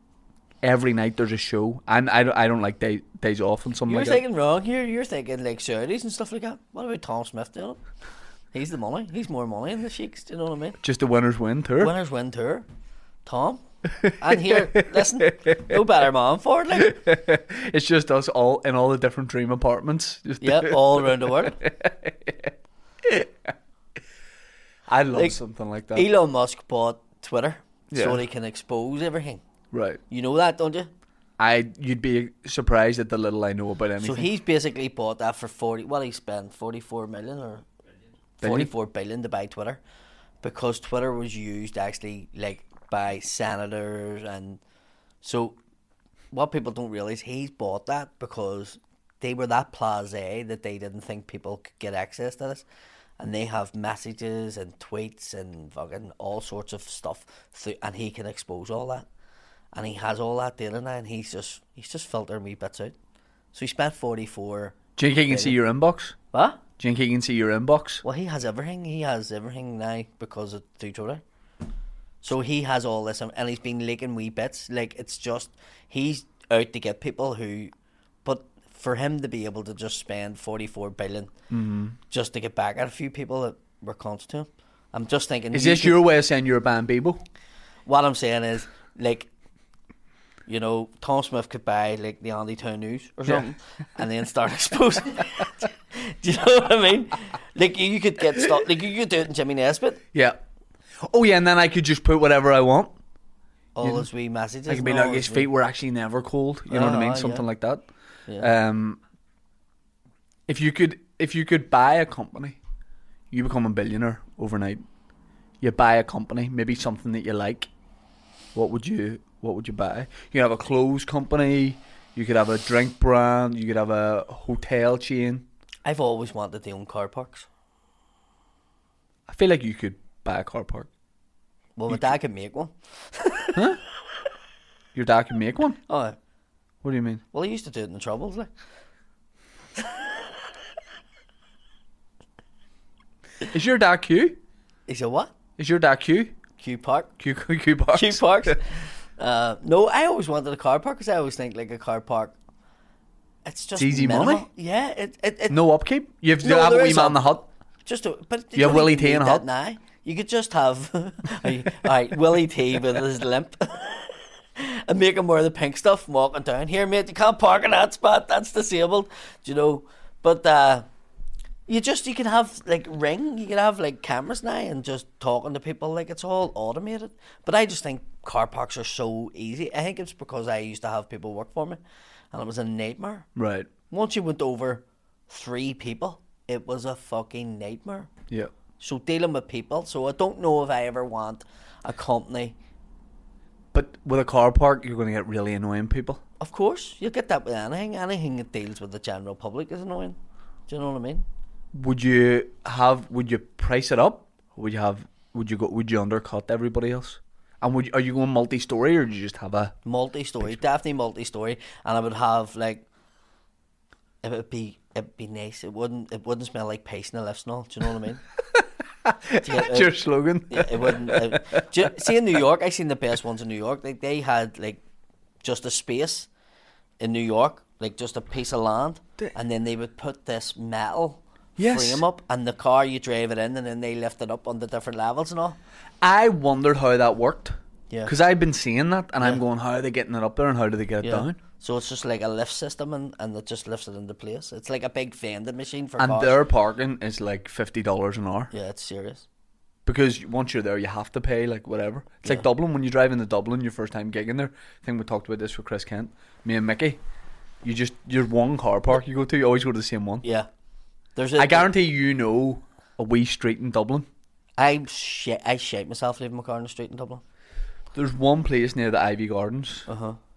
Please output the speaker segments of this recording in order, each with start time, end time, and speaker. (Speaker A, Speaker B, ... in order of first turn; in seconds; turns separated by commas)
Speaker A: 0.6-4.2, Speaker B: 3.9-7.8, Speaker B: 8.5-10.8, Speaker A: 10.8-11.9, Speaker B: 11.8-12.7, Speaker B: 13.2-17.0, Speaker A: 14.0-15.8, Speaker A: 16.8-23.5, Speaker B: 20.4-21.6, Speaker A: 24.9-26.1, Speaker B: 25.9-29.4, Speaker A: 27.9-28.2, Speaker A: 29.7-30.0, Speaker B: 30.1-30.9, Speaker A: 31.4-34.3, Speaker B: 34.0-37.7, Speaker B: 38.4-39.8, Speaker A: 38.4-38.7, Speaker B: 40.4-44.6, Speaker B: 45.2-45.6, Speaker B: 46.3-52.6, Speaker B: 53.2-59.1, Speaker B: 59.8-63.0, Speaker B: 63.5-65.6, Speaker A: 65.0-66.2, Speaker B: 66.3-66.6, Speaker A: 66.8-68.0, Speaker B: 68.0-71.2, Speaker B: 72.2-77.7, Speaker B: 78.2-81.3, Speaker A: 81.5-82.0, Speaker B: 82.1-86.0, Speaker A: 85.5-87.2, Speaker B: 87.9-89.3, Speaker B: 90.5-100.0, Speaker A: 100.1-100.4, Speaker A: 101.0-102.9, Speaker B: 103.8-105.5, Speaker A: 104.7-107.8, Speaker B: 106.7-107.5, Speaker A: 108.4-109.0, Speaker A: 110.5-112.6, Speaker A: 113.3-114.8, Speaker A: 115.6-117.7, Speaker A: 118.5-125.5, Speaker B: 125.8-127.5, Speaker A: 129.3-130.9, Speaker B: 131.8-133.8, Speaker A: 133.5-133.8, Speaker A: 134.9-135.8, Speaker B: 135.9-136.2, Speaker A: 136.8-137.2, Speaker B: 137.3-138.5, Speaker B: 139.8-140.2, Speaker A: 143.5-144.4, Speaker B: 144.9-145.3, Speaker A: 145.6-146.3, Speaker B: 146.6-147.1, Speaker A: 147.2-148.6, Speaker B: 147.9-152.4, Speaker B: 153.4-155.6, Speaker A: 153.8-154.5, Speaker A: 155.5-157.5, Speaker B: 156.4-157.3, Speaker B: 157.8-170.9, Speaker A: 158.6-159.4, Speaker B: 171.7-181.8, Speaker B: 182.3-183.3, Speaker A: 183.4-183.7, Speaker B: 183.9-188.1, Speaker B: 188.8-192.6, Speaker A: 193.7-196.2, Speaker B: 196.4-200.2, Speaker B: 200.7-201.2, Speaker A: 201.7-209.8, Speaker B: 209.8-212.8, Speaker B: 214.2-218.2, Speaker A: 218.5-222.2, Speaker B: 219.4-220.0, Speaker B: 220.5-224.8, Speaker B: 225.4-226.3, Speaker B: 227.0-235.6, Speaker A: 231.6-232.0, Speaker A: 236.0-237.6, Speaker A: 238.1-241.4, Speaker B: 241.0-246.4, Speaker A: 246.0-248.5, Speaker B: 248.5-249.3, Speaker A: 249.9-257.0, Speaker A: 257.6-260.2, Speaker B: 260.2-260.5, Speaker B: 261.1-261.7, Speaker A: 261.4-264.1, Speaker B: 264.6-267.2, Speaker A: 267.9-269.9, Speaker B: 269.9-270.2